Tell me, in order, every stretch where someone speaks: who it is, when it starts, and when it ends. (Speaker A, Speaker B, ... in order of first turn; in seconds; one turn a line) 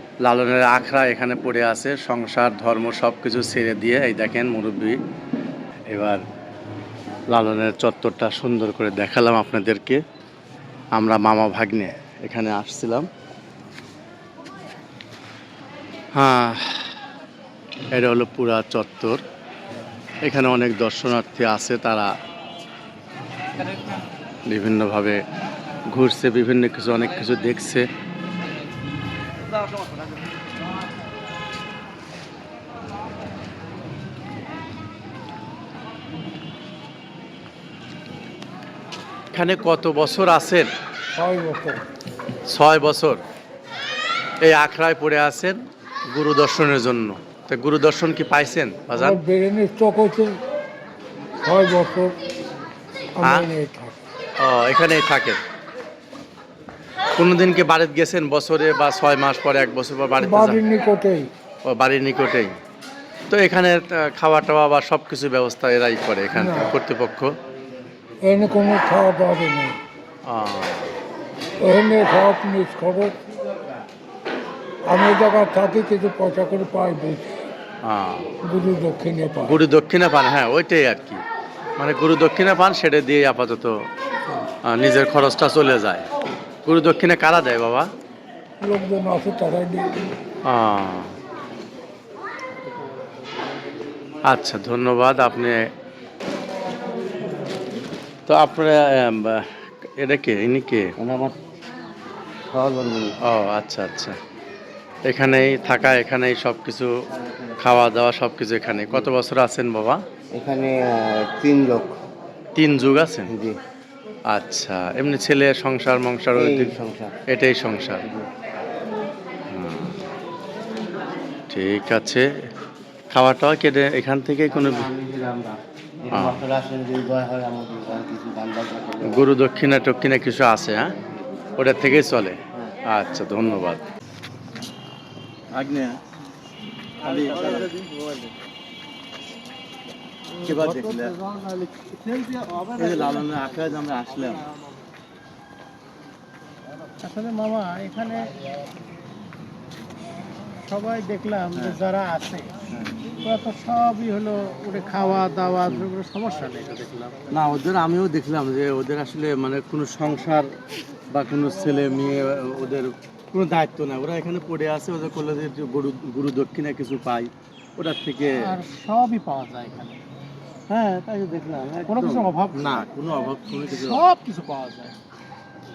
Speaker A: 0.2-5.0
Speaker A: 5.9-6.2
Speaker A: 7.3-10.0
Speaker A: 10.9-13.1
Speaker A: 16.1-16.9
Speaker A: 17.9-19.2
Speaker A: 20.2-22.1
Speaker A: 24.5-25.2
Speaker A: 25.9-27.9
Speaker A: 39.3-40.7
Speaker B: 41.1-41.8
Speaker A: 42.5-43.2
Speaker A: 44.4-49.2
Speaker B: 48.9-50.4
Speaker B: 51.4-52.1
Speaker B: 53.1-54.0
Speaker A: 53.2-53.5
Speaker A: 54.4-55.4
Speaker A: 57.1-60.6
Speaker B: 60.2-61.3
Speaker A: 61.6-62.6
Speaker A: 63.3-67.3
Speaker B: 66.3-66.7
Speaker B: 68.2-69.8
Speaker A: 70.2-70.9
Speaker B: 71.6-73.2
Speaker B: 74.8-77.3
Speaker A: 77.8-78.3
Speaker B: 78.4-79.6
Speaker A: 79.4-81.2
Speaker A: 81.8-83.8
Speaker A: 84.6-86.0
Speaker A: 86.7-87.9
Speaker B: 88.6-90.1
Speaker A: 90.4-91.2
Speaker A: 94.2-95.7
Speaker A: 98.3-100.9
Speaker C: 101.0-101.4
Speaker C: 102.5-103.2
Speaker A: 103.2-104.2
Speaker A: 105.1-106.9
Speaker A: 107.6-110.0
Speaker C: 110.3-112.0
Speaker A: 112.5-113.3
Speaker C: 113.3-113.6
Speaker A: 114.3-118.0
Speaker C: 116.3-117.2
Speaker A: 119.5-120.0
Speaker A: 121.5-122.5
Speaker A: 123.1-124.9
Speaker C: 124.5-129.2
Speaker A: 126.1-126.4
Speaker A: 129.0-131.0
Speaker A: 131.6-133.8
Speaker A: 135.5-136.0
Speaker A: 137.0-137.7
Speaker A: 140.4-141.2
Speaker D: 140.7-142.7
Speaker A: 142.7-144.5
Speaker D: 147.0-148.4
Speaker D: 150.6-152.6
Speaker D: 153.2-157.3
Speaker A: 157.3-160.6
Speaker A: 161.1-168.6
Speaker D: 168.3-170.0
Speaker A: 170.7-174.0
Speaker D: 171.9-172.8
Speaker D: 173.7-174.9